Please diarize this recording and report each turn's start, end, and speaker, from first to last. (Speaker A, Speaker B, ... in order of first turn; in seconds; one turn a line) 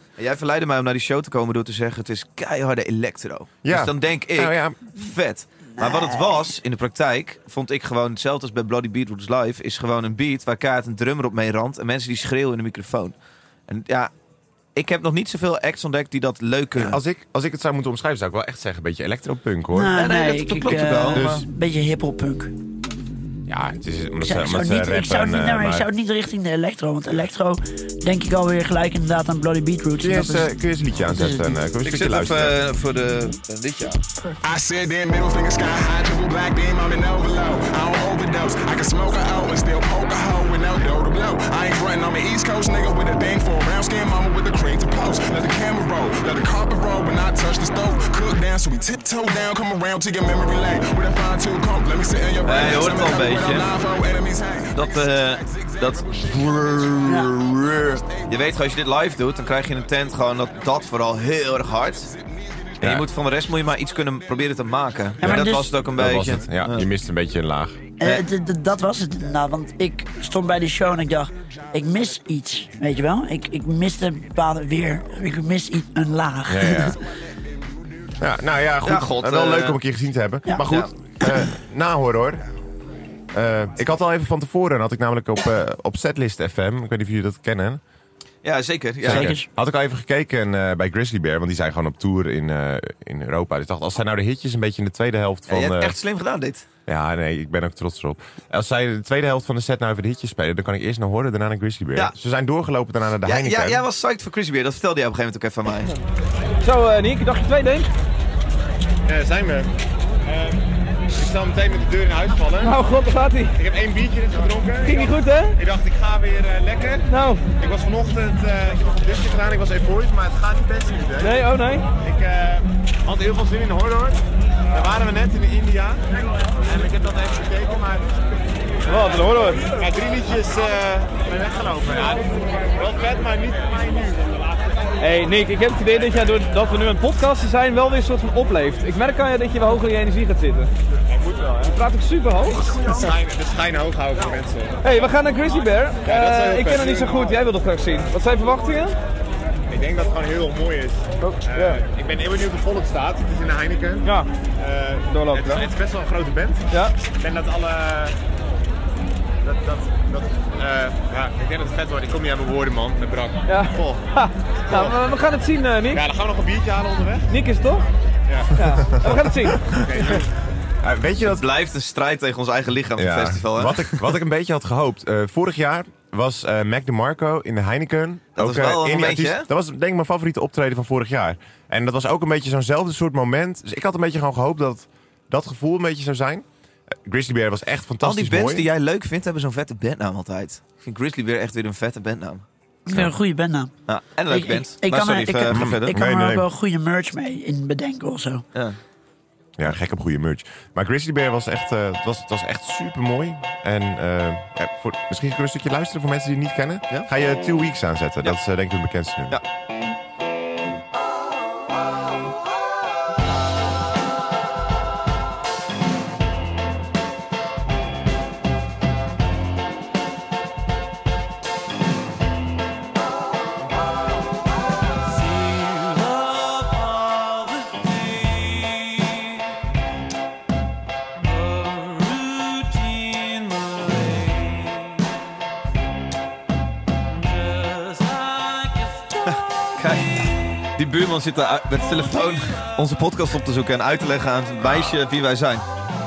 Speaker A: 0.2-13.2
Speaker B: 3.6-4.8
Speaker C: 5.8-6.4
Speaker A: 13.7-14.1
Speaker A: 14.8-17.0
Speaker B: 16.8-20.0
Speaker C: 19.7-22.5
Speaker A: 20.0-21.4
Speaker B: 21.1-21.4
Speaker B: 23.5-25.9
Speaker C: 24.2-30.5
Speaker B: 30.0-32.6
Speaker C: 31.1-31.6
Speaker A: 31.9-34.0
Speaker D: 34.4-57.1
Speaker A: 52.4-53.7
Speaker A: 54.7-62.1
Speaker C: 57.0-57.3
Speaker D: 58.0-58.3
Speaker D: 62.1-62.7
Speaker B: 62.8-63.1
Speaker A: 62.8-66.9
Speaker C: 65.2-65.7
Speaker B: 65.2-67.8
Speaker C: 68.0-77.0
Speaker B: 76.5-77.0
Speaker B: 78.2-82.4
Speaker A: 78.8-79.8
Speaker A: 80.6-80.9
Speaker B: 83.3-87.8
Speaker A: 88.4-89.3
Speaker B: 89.0-96.0
Speaker C: 89.1-89.5
Speaker A: 95.5-96.7
Speaker B: 96.9-103.8
Speaker A: 103.2-106.0
Speaker E: 106.6-107.9
Speaker F: 109.1-109.7
Speaker F: 110.3-112.8
Speaker E: 112.6-113.6
Speaker F: 113.6-117.0
Speaker E: 114.8-115.6
Speaker E: 117.1-117.5
Speaker F: 117.6-121.4
Speaker E: 121.2-121.9
Speaker F: 122.0-124.2
Speaker F: 124.7-126.0
Speaker F: 126.7-128.2
Speaker E: 128.9-129.7
Speaker F: 129.7-134.9
Speaker E: 135.0-140.7
Speaker F: 135.9-136.2
Speaker F: 141.1-141.8
Speaker E: 141.7-143.1
Speaker F: 142.9-144.8
Speaker E: 144.8-149.0
Speaker F: 146.1-147.4
Speaker F: 149.7-154.1
Speaker E: 151.2-151.8
Speaker E: 154.0-154.3
Speaker F: 154.6-158.2
Speaker E: 155.1-155.7
Speaker F: 159.4-164.0
Speaker E: 163.5-166.1
Speaker F: 164.7-165.0
Speaker F: 165.9-167.3
Speaker E: 167.3-167.9
Speaker F: 168.3-169.1
Speaker E: 168.5-169.7
Speaker B: 169.6-170.0
Speaker F: 169.7-170.2
Speaker B: 170.8-171.5
Speaker A: 171.2-174.1
Speaker B: 173.0-186.4
Speaker A: 178.4-179.5
Speaker B: 187.1-188.7
Speaker A: 188.0-192.4
Speaker C: 192.9-193.7
Speaker A: 193.9-196.0
Speaker C: 194.3-198.4
Speaker B: 195.5-196.5
Speaker B: 199.6-209.4
Speaker A: 239.2-245.7
Speaker B: 244.6-244.9